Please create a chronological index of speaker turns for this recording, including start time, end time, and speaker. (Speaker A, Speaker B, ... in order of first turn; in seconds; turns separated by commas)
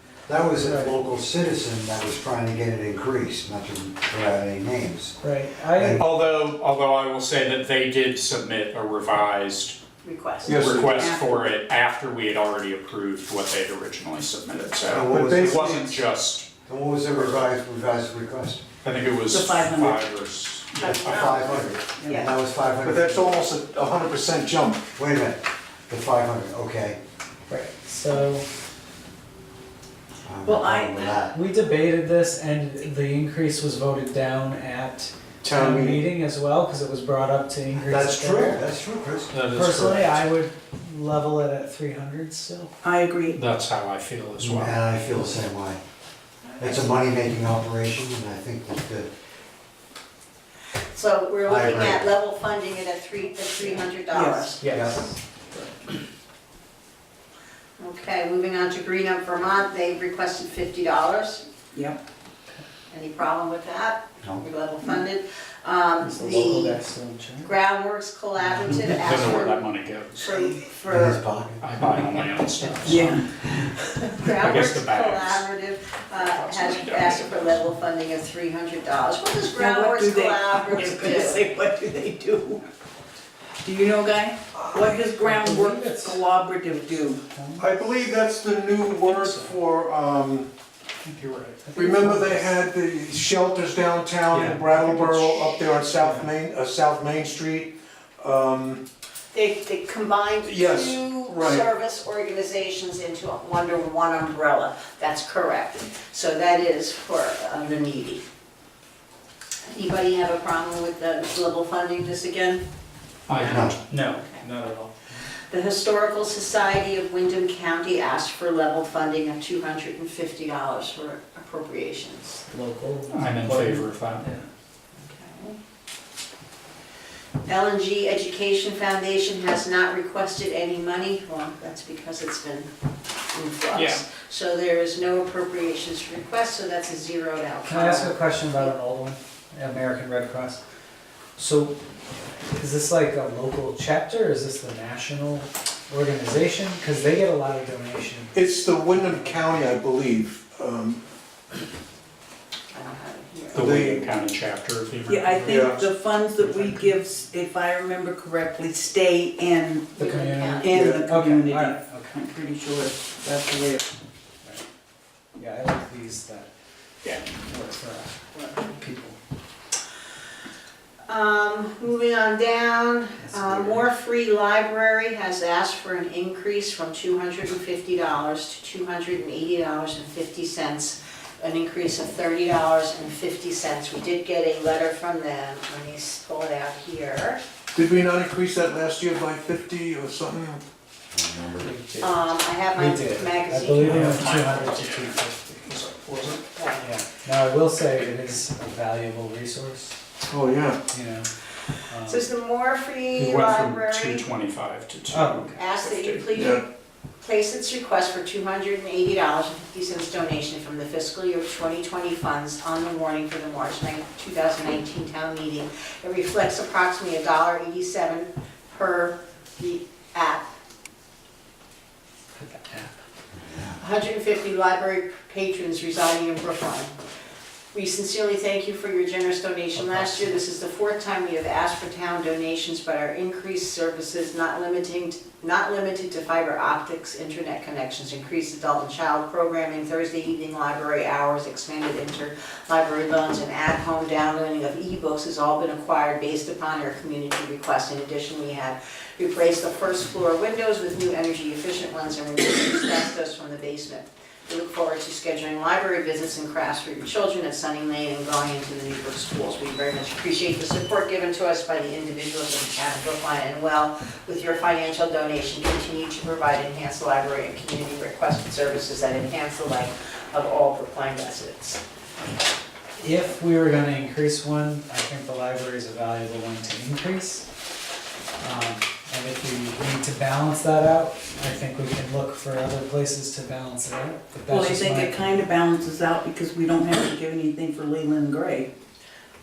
Speaker A: 0.3-5.2, Speaker B: 0.6-1.0, Speaker B: 5.2-6.0, Speaker A: 5.7-6.1, Speaker C: 6.0-9.8, Speaker D: 10.0-10.6, Speaker E: 10.4-11.1, Speaker C: 10.4-16.5, Speaker F: 11.0-11.6, Speaker A: 14.8-15.9, Speaker E: 15.1-15.8, Speaker A: 16.7-18.6, Speaker C: 18.8-21.2, Speaker F: 19.3-20.0, Speaker D: 20.8-22.3, Speaker A: 20.8-23.4, Speaker F: 21.9-22.3, Speaker E: 22.8-24.8, Speaker A: 25.0-27.0, Speaker B: 27.5-28.4, Speaker A: 30.2-31.4, Speaker F: 30.4-31.3, Speaker B: 31.3-38.7, Speaker E: 35.4-36.1, Speaker A: 37.7-39.4, Speaker C: 39.3-40.2, Speaker B: 39.5-42.8, Speaker F: 42.8-43.4, Speaker C: 43.3-44.8, Speaker A: 44.4-45.8, Speaker D: 46.5-46.9, Speaker A: 46.6-49.1, Speaker D: 50.9-54.6, Speaker A: 51.5-52.1, Speaker F: 54.1-54.6, Speaker C: 54.6-55.0, Speaker A: 54.7-55.0, Speaker B: 54.7-55.7, Speaker D: 57.8-61.4, Speaker F: 61.7-62.0, Speaker D: 62.9-66.8, Speaker B: 66.0-67.5, Speaker D: 67.4-69.6, Speaker B: 68.4-69.0, Speaker C: 68.7-70.3, Speaker D: 70.2-71.2, Speaker A: 70.9-71.8, Speaker C: 71.6-73.2, Speaker B: 72.0-73.2, Speaker F: 72.8-73.3, Speaker D: 74.0-81.5, Speaker C: 74.3-75.5, Speaker C: 76.1-77.5, Speaker F: 79.5-82.6, Speaker F: 83.6-87.2, Speaker B: 84.8-87.7, Speaker E: 87.6-90.5, Speaker B: 89.0-89.6, Speaker B: 91.0-92.5, Speaker E: 91.7-98.8, Speaker C: 94.3-95.1, Speaker B: 94.7-95.3, Speaker B: 96.0-96.3, Speaker D: 99.3-108.2, Speaker E: 100.4-101.7, Speaker D: 109.7-112.6, Speaker C: 113.3-114.9, Speaker A: 113.4-113.7, Speaker D: 114.2-114.4, Speaker B: 114.8-115.2, Speaker D: 115.5-122.4, Speaker B: 122.5-124.5, Speaker C: 123.1-124.2, Speaker D: 125.0-125.6, Speaker D: 127.5-132.7, Speaker D: 133.3-138.7, Speaker C: 133.7-134.0, Speaker B: 137.7-140.6, Speaker B: 141.4-141.8, Speaker B: 142.5-148.4, Speaker E: 148.3-151.0, Speaker B: 148.9-149.4, Speaker D: 152.7-153.8, Speaker E: 153.5-154.1, Speaker C: 153.5-155.8, Speaker F: 155.1-160.0, Speaker E: 155.4-155.9, Speaker B: 156.4-156.9, Speaker D: 159.9-160.8, Speaker B: 160.0-162.2, Speaker F: 160.6-163.8, Speaker A: 160.7-161.0, Speaker B: 163.3-163.8, Speaker B: 165.4-166.5, Speaker B: 167.2-169.2, Speaker D: 171.1-187.4, Speaker B: 173.2-173.8, Speaker E: 187.7-190.6, Speaker A: 191.1-191.8, Speaker B: 191.6-192.2, Speaker D: 192.0-194.1, Speaker B: 192.7-195.7, Speaker C: 193.8-196.4, Speaker D: 196.5-196.9, Speaker B: 196.8-200.0, Speaker E: 200.3-200.8, Speaker B: 200.9-201.3, Speaker B: 201.9-202.3, Speaker D: 202.1-204.3, Speaker C: 203.2-206.3, Speaker B: 205.1-205.6, Speaker D: 205.5-206.6, Speaker E: 206.3-206.6, Speaker D: 207.2-220.5, Speaker B: 222.4-223.0, Speaker A: 223.3-223.8, Speaker D: 223.8-226.9, Speaker D: 227.7-271.8, Speaker B: 229.8-230.3, Speaker B: 273.0-277.5, Speaker B: 278.4-285.1, Speaker F: 284.5-288.7